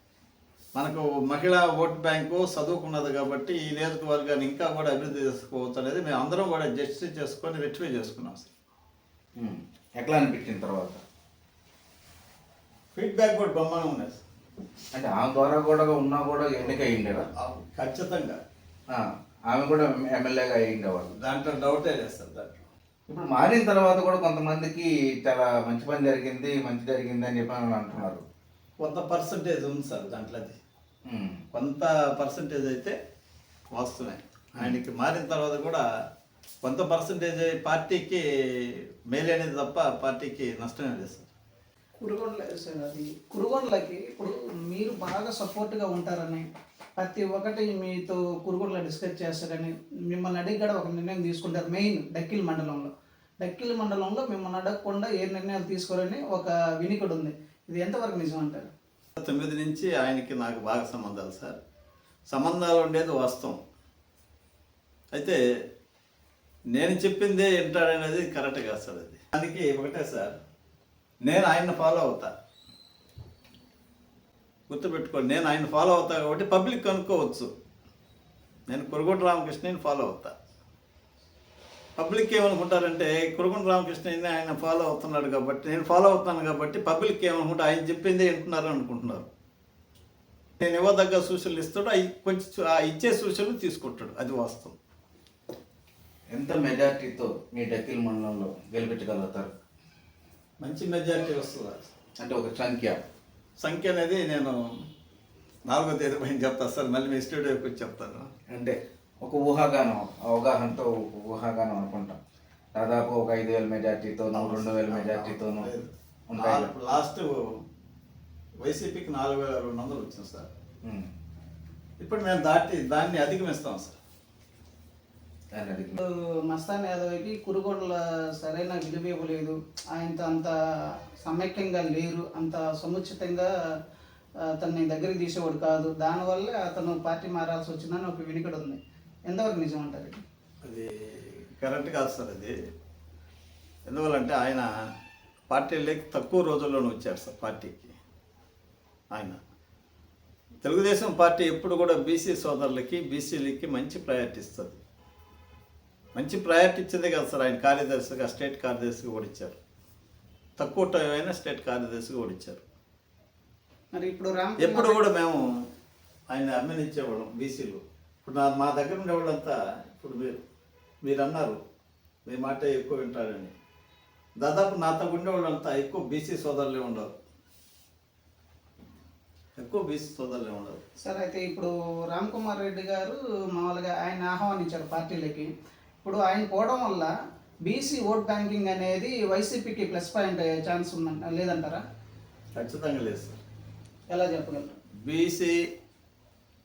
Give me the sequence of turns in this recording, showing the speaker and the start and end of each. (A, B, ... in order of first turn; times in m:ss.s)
0:00.7-0:08.5 A
0:09.4-0:11.0 B
0:12.9-0:14.2 A
0:14.9-0:17.3 B
0:17.4-0:18.4 A
0:18.9-0:21.1 B
0:21.2-0:22.6 A
0:23.1-0:28.2 B
0:28.8-0:30.6 A
0:31.0-0:31.4 B
0:31.5-0:33.0 A
0:33.7-0:35.8 A
0:36.6-0:38.2 A
0:39.1-0:41.3 A
0:42.0-0:46.4 C
0:47.0-0:58.7 C
0:59.2-1:01.6 A
1:02.3-1:03.6 A
1:06.7-1:10.3 A
1:11.2-1:12.3 A
1:14.7-1:17.5 A
1:18.7-1:20.3 A
1:22.0-1:29.3 A
1:30.6-1:34.8 A
1:36.3-1:39.5 B
1:40.6-1:41.9 A
1:42.2-1:43.0 B
1:43.6-1:44.6 A
1:45.7-1:48.3 A
1:48.5-1:52.2 B
1:52.7-1:55.7 B
1:54.3-1:57.4 A
1:56.3-1:56.7 B
1:58.6-2:00.5 A
2:00.8-2:01.1 B
2:02.0-2:04.0 A
2:05.5-2:06.0 B
2:06.0-2:10.5 C
2:11.2-2:13.5 C
2:14.5-2:20.2 C
2:20.6-2:22.5 A
2:23.8-2:24.7 A
2:25.5-2:27.9 A
2:29.1-2:29.4 A
2:30.6-2:34.8 A
2:36.1-2:39.6 A
2:40.6-2:42.6 A
2:43.9-2:45.0 C
2:44.6-2:45.4 A
2:46.3-2:50.4 A
2:51.0-2:51.6 A
2:52.2-2:53.5 A
2:54.4-2:57.1 A
2:59.6-3:00.8 A
3:01.0-3:05.5 C
3:06.0-3:07.1 C
3:07.6-3:11.8 C
3:12.5-3:13.4 A
3:14.1-3:14.7 C
3:15.0-3:15.6 A